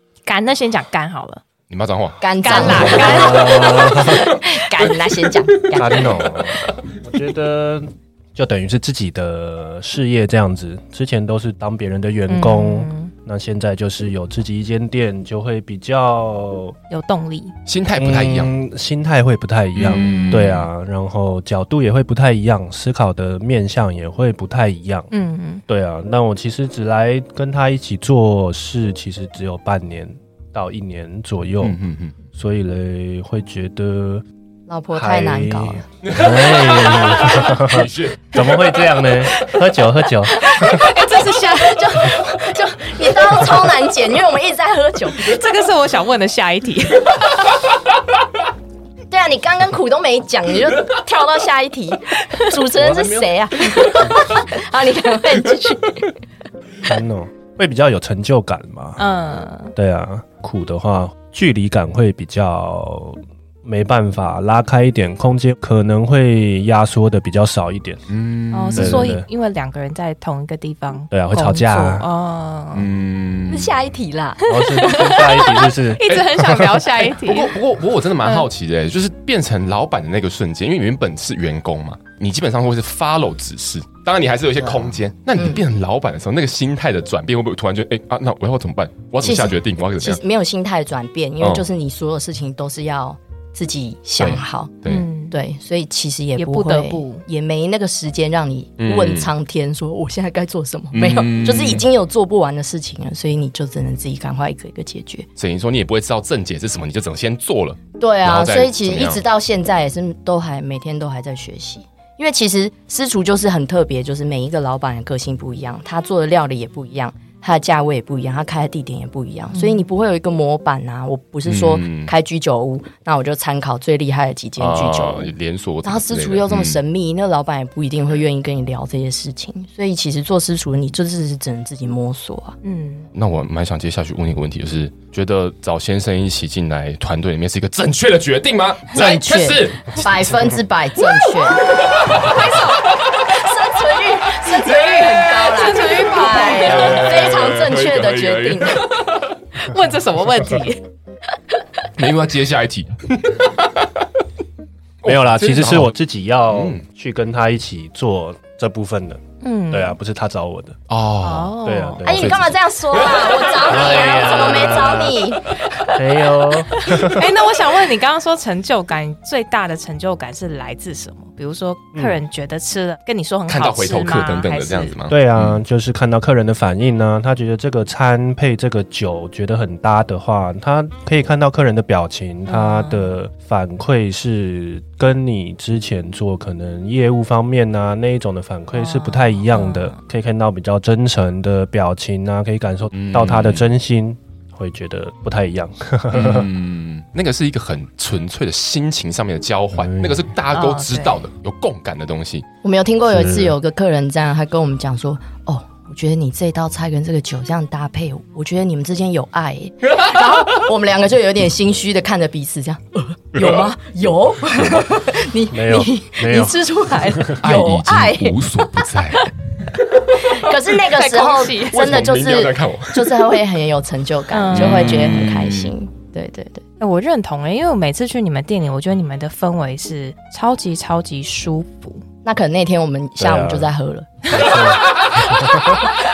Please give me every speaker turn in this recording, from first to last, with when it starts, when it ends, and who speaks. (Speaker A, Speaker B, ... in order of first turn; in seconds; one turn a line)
Speaker A: 0.2-1.4
Speaker B: 1.7-3.1
Speaker C: 2.2-6.2
Speaker A: 2.4-3.8
Speaker D: 2.8-4.3
Speaker B: 4.8-6.1
Speaker D: 5.7-16.7
Speaker A: 12.3-13.1
Speaker A: 16.9-17.5
Speaker B: 17.7-18.5
Speaker D: 17.9-25.1
Speaker B: 19.7-20.7
Speaker A: 19.9-20.5
Speaker A: 25.1-25.6
Speaker D: 25.7-31.8
Speaker B: 31.6-32.1
Speaker D: 32.3-34.2
Speaker C: 34.7-35.8
Speaker D: 34.9-40.8
Speaker B: 36.0-38.9
Speaker A: 39.3-39.5
Speaker A: 40.3-42.1
Speaker C: 40.6-40.9
Speaker C: 41.5-45.4
Speaker A: 45.2-47.3
Speaker C: 49.1-56.1
Speaker D: 52.8-53.3
Speaker D: 56.8-59.0
Speaker A: 59.0-59.7
Speaker D: 59.7-68.0
Speaker B: 68.1-69.1
Speaker A: 68.5-72.9
Speaker D: 68.7-69.2
Speaker D: 71.1-72.0
Speaker B: 72.7-73.8
Speaker C: 73.5-74.4
Speaker A: 74.4-77.5
Speaker D: 74.5-76.9
Speaker B: 77.0-90.2
Speaker C: 84.6-85.6
Speaker C: 89.2-94.8
Speaker B: 94.2-95.0
Speaker A: 94.8-95.4
Speaker C: 95.3-105.3
Speaker A: 96.3-97.2
Speaker B: 98.8-99.3
Speaker B: 100.9-101.8
Speaker B: 105.4-109.2
Speaker C: 108.0-125.3
Speaker A: 119.5-119.9
Speaker B: 121.4-122.1
Speaker B: 124.6-126.8
Speaker C: 125.8-132.6
Speaker A: 132.6-133.1
Speaker B: 133.1-140.4
Speaker C: 138.9-148.8
Speaker B: 141.9-142.3
Speaker B: 144.4-145.7
Speaker A: 145.5-147.2
Speaker B: 146.4-149.3
Speaker A: 149.6-150.8
Speaker B: 151.9-154.0
Speaker B: 155.0-155.9
Speaker D: 155.0-160.8
Speaker B: 156.5-156.8
Speaker A: 159.4-160.0
Speaker B: 160.9-165.0
Speaker A: 161.2-162.1
Speaker D: 161.6-162.5
Speaker C: 162.0-166.1
Speaker D: 163.6-165.3
Speaker D: 165.9-167.3
Speaker A: 166.8-174.9
Speaker B: 173.5-175.6
Speaker D: 175.1-196.5
Speaker A: 182.5-183.1
Speaker A: 188.7-190.0
Speaker B: 192.9-193.7
Speaker B: 196.1-202.4
Speaker D: 199.8-200.2
Speaker A: 200.5-201.2
Speaker C: 202.6-219.3
Speaker D: 203.1-203.5
Speaker B: 213.3-213.7
Speaker B: 214.6-214.8
Speaker D: 215.5-217.3
Speaker B: 217.4-219.3
Speaker C: 219.9-226.6
Speaker B: 220.2-220.5
Speaker A: 220.9-222.1
Speaker B: 221.7-223.4
Speaker A: 224.3-225.2
Speaker B: 224.5-225.7
Speaker A: 226.8-232.0
Speaker C: 232.2-234.6
Speaker D: 233.2-233.7
Speaker D: 234.3-235.9